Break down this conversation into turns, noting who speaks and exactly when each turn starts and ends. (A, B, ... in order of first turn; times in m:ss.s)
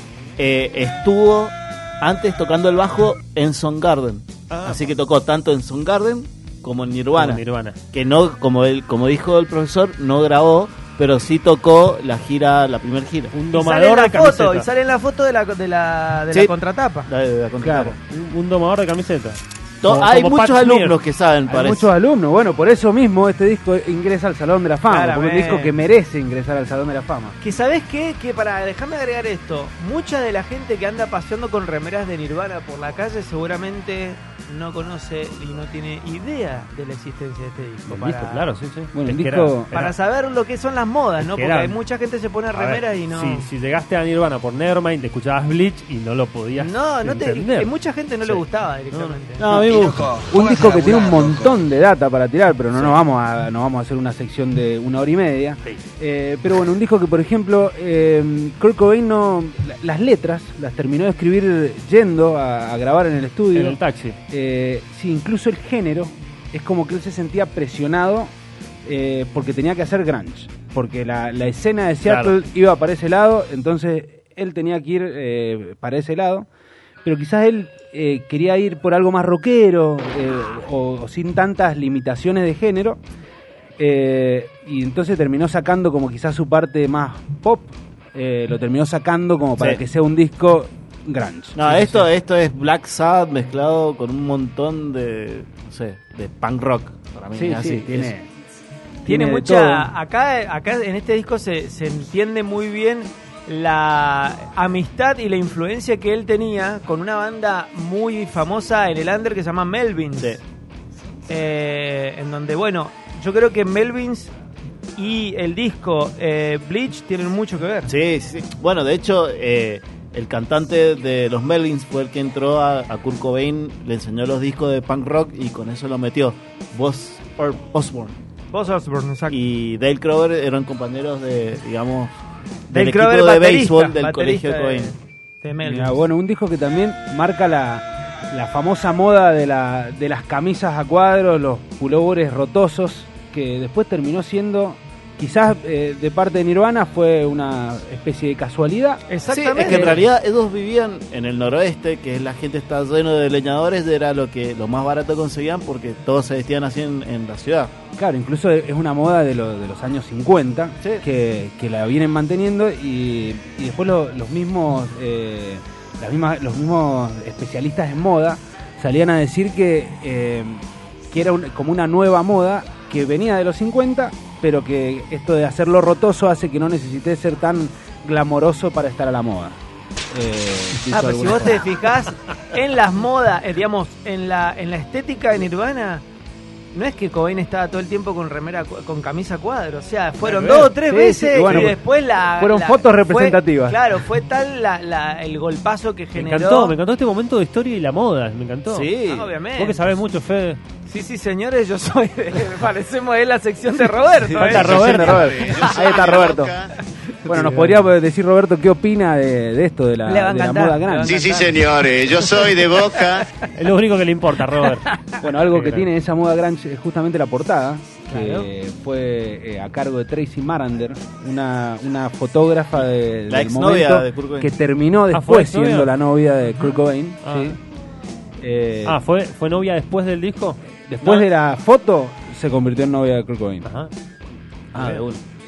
0:00.4-0:13.4 A
0:04.5-0:04.8 B
0:07.1-0:07.8 B
0:13.3-0:14.7 B
0:13.5-0:17.1 C
0:17.1-0:18.0 A
0:17.6-0:18.0 D
0:18.0-0:21.0 B
0:19.8-0:21.9 A
0:21.5-0:27.4 D
0:24.9-0:25.8 C
0:27.4-0:38.5 C
0:37.9-0:39.9 B
0:38.9-0:39.7 D
0:39.7-0:43.5 C
0:41.2-0:41.8 B
0:42.5-0:47.7 B
0:46.6-0:49.5 C
0:48.2-0:49.6 B
0:49.4-0:50.3 A
0:50.2-1:03.8 D
1:03.5-1:04.2 B
1:04.3-1:08.3 D
1:08.8-1:16.5 D
1:12.0-1:12.3 B
1:17.0-1:23.0 D
1:23.8-1:32.1 D
1:31.5-1:38.1 A
1:37.3-1:38.3 D
1:39.0-1:39.9 D
1:39.0-1:50.4 C
1:51.3-1:54.3 C
1:55.0-1:57.9 C
1:57.9-2:08.2 A
2:08.5-2:09.4 C
2:09.3-2:12.1 A
2:12.7-2:14.9 A
2:12.7-2:16.0 C
2:15.6-2:29.0 D
2:29.1-2:30.0 C
2:29.3-2:37.7 A
2:38.0-2:59.6 D
3:00.1-3:01.8 D
3:00.9-3:06.0 C
3:06.7-3:16.8 C
3:10.2-3:10.8 B
3:10.8-3:13.9 D
3:11.4-3:11.7 B
3:16.1-3:18.9 B
3:18.7-3:19.3 A
3:19.0-3:19.9 C
3:19.6-3:20.6 B
3:20.9-3:25.8 C
3:24.3-3:25.4 B
3:24.6-3:26.7 E
3:24.7-3:26.5 D
3:25.8-3:26.7 A
3:27.2-3:31.3 D
3:27.2-3:27.7 A
3:30.0-3:32.8 C
3:31.0-3:33.3 E
3:33.4-3:35.9 B
3:35.2-3:47.6 D
3:38.1-3:38.5 C
3:43.3-3:44.5 A
3:45.1-3:45.9 B
3:47.2-3:47.6 B
3:48.4-3:49.0 D
3:48.8-3:51.3 B
3:50.9-3:53.7 D
3:53.6-3:53.9 B
3:54.7-3:55.0 D
3:54.7-3:55.2 A